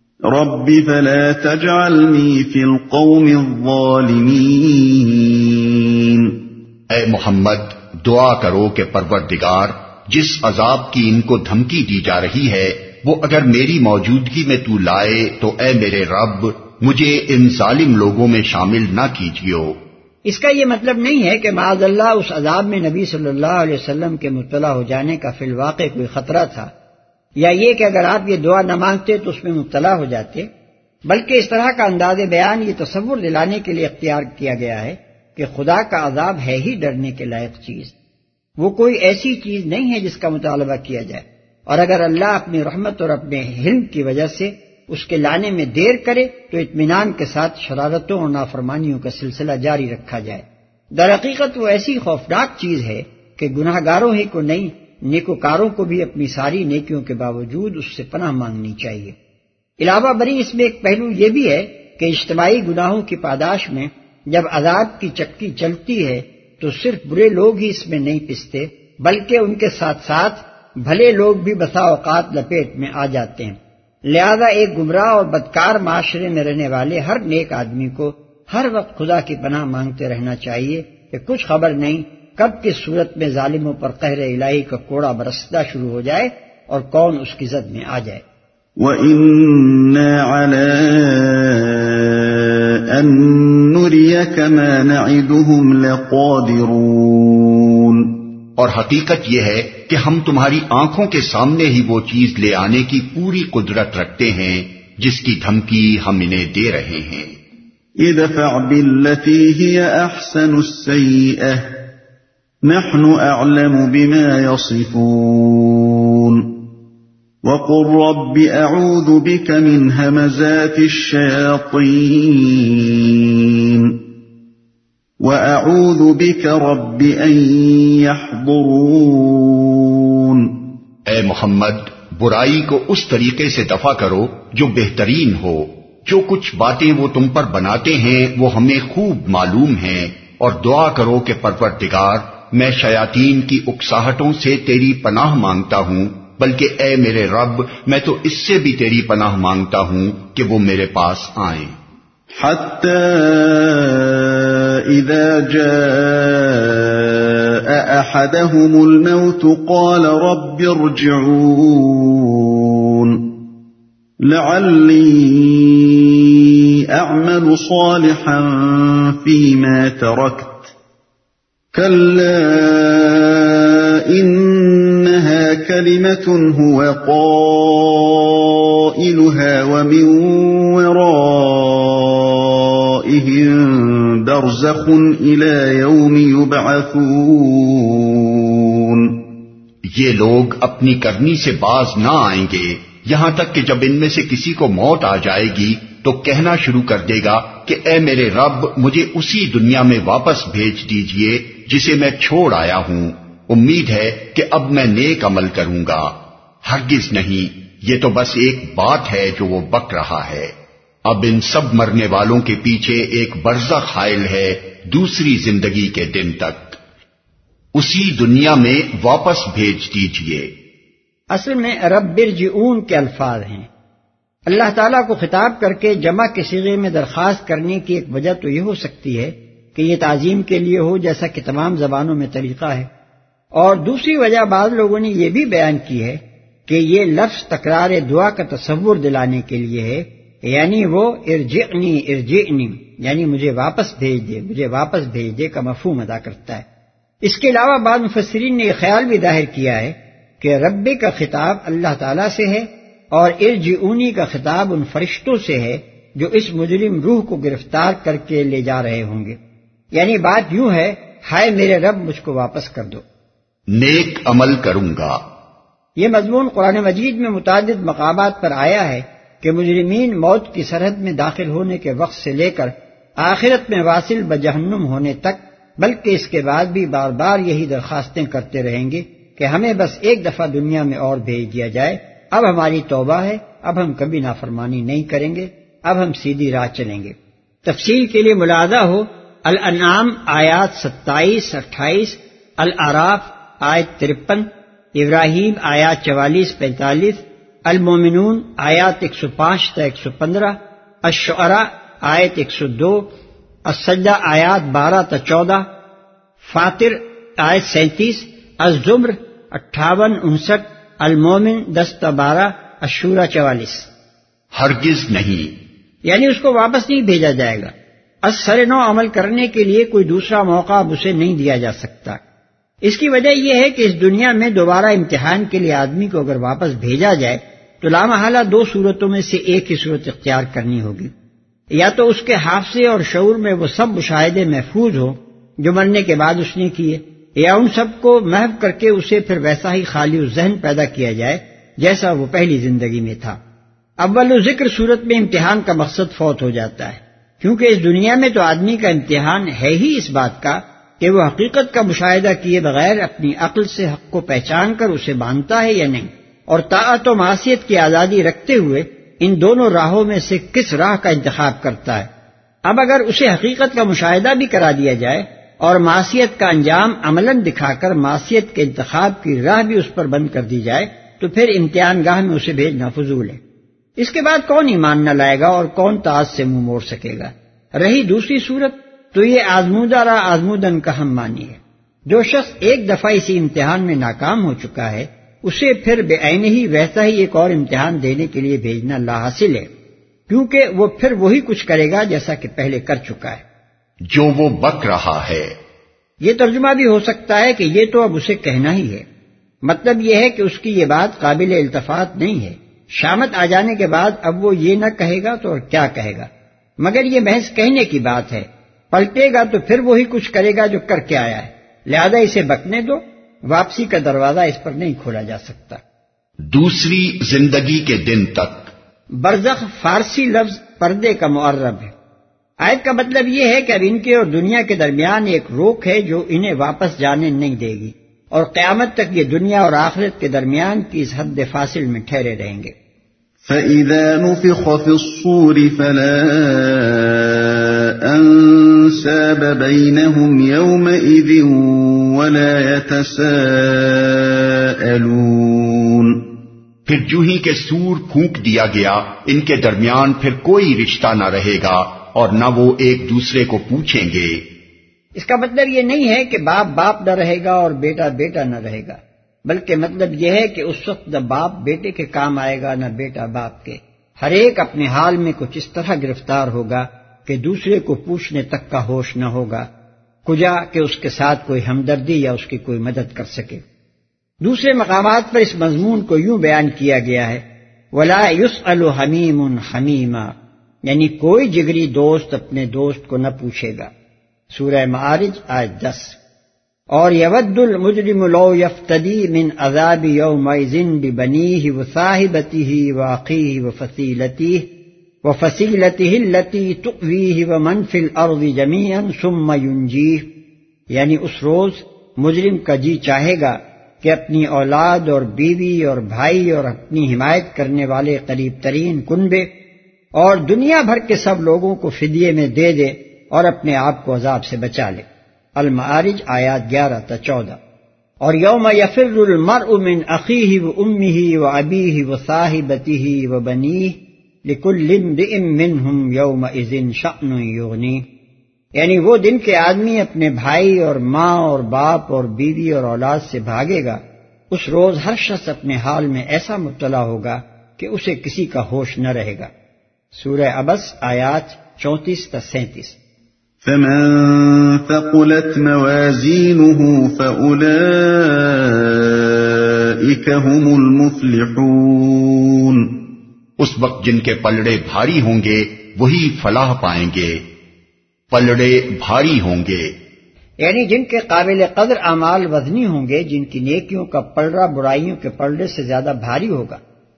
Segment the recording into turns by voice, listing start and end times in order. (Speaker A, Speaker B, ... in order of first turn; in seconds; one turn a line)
Speaker A: 0.3-6.5
Speaker B: 6.9-19.8
Speaker C: 20.2-26.7
Speaker C: 27.4-30.5
Speaker C: 31.1-37.9
Speaker C: 38.6-50.4
Speaker C: 51.0-59.1
Speaker C: 59.8-88.2
Speaker A: 88.8-98.2
Speaker B: 98.6-107.3
Speaker A: 108.0-111.9
Speaker A: 112.6-116.7
Speaker A: 117.4-124.1
Speaker A: 125.2-130.7
Speaker B: 131.1-151.7
Speaker A: 152.3-163.5
Speaker A: 164.2-170.7
Speaker A: 171.7-189.3
Speaker B: 189.9-206.1
Speaker B: 206.6-210.5
Speaker B: 211.1-216.8
Speaker B: 217.8-220.5
Speaker C: 221.3-223.7
Speaker C: 224.5-232.9
Speaker C: 233.6-246.6
Speaker C: 247.3-259.4
Speaker C: 259.9-263.0
Speaker B: 263.7-265.2
Speaker C: 266.0-289.0
Speaker C: 289.5-294.5
Speaker C: 295.0-297.2
Speaker C: 297.7-300.5
Speaker C: 301.1-301.6
Speaker C: 302.1-303.0
Speaker C: 303.7-305.6
Speaker C: 306.5-313.9
Speaker B: 314.5-315.5
Speaker C: 316.1-317.7
Speaker C: 318.2-322.2
Speaker C: 322.9-331.1
Speaker C: 331.8-343.4
Speaker C: 344.0-362.1
Speaker C: 362.7-373.4
Speaker C: 374.0-389.7
Speaker C: 390.3-393.4
Speaker B: 394.1-395.5
Speaker C: 396.2-399.0
Speaker C: 399.6-406.3
Speaker C: 406.8-415.8
Speaker B: 416.5-418.7
Speaker C: 419.2-421.9
Speaker C: 422.6-432.7
Speaker A: 433.4-446.4
Speaker B: 446.9-454.5
Speaker C: 455.1-469.6
Speaker C: 470.2-473.6
Speaker C: 474.4-477.4
Speaker C: 477.9-480.3
Speaker C: 480.9-483.9
Speaker C: 484.5-486.2
Speaker C: 486.9-494.7
Speaker C: 495.2-500.3
Speaker C: 500.9-509.5
Speaker C: 510.1-517.6
Speaker C: 518.2-528.0
Speaker C: 528.8-534.0
Speaker C: 534.5-539.5
Speaker C: 540.2-543.0
Speaker A: 543.6-553.1
Speaker B: 553.6-557.4
Speaker B: 558.3-559.9
Speaker C: 560.6-566.8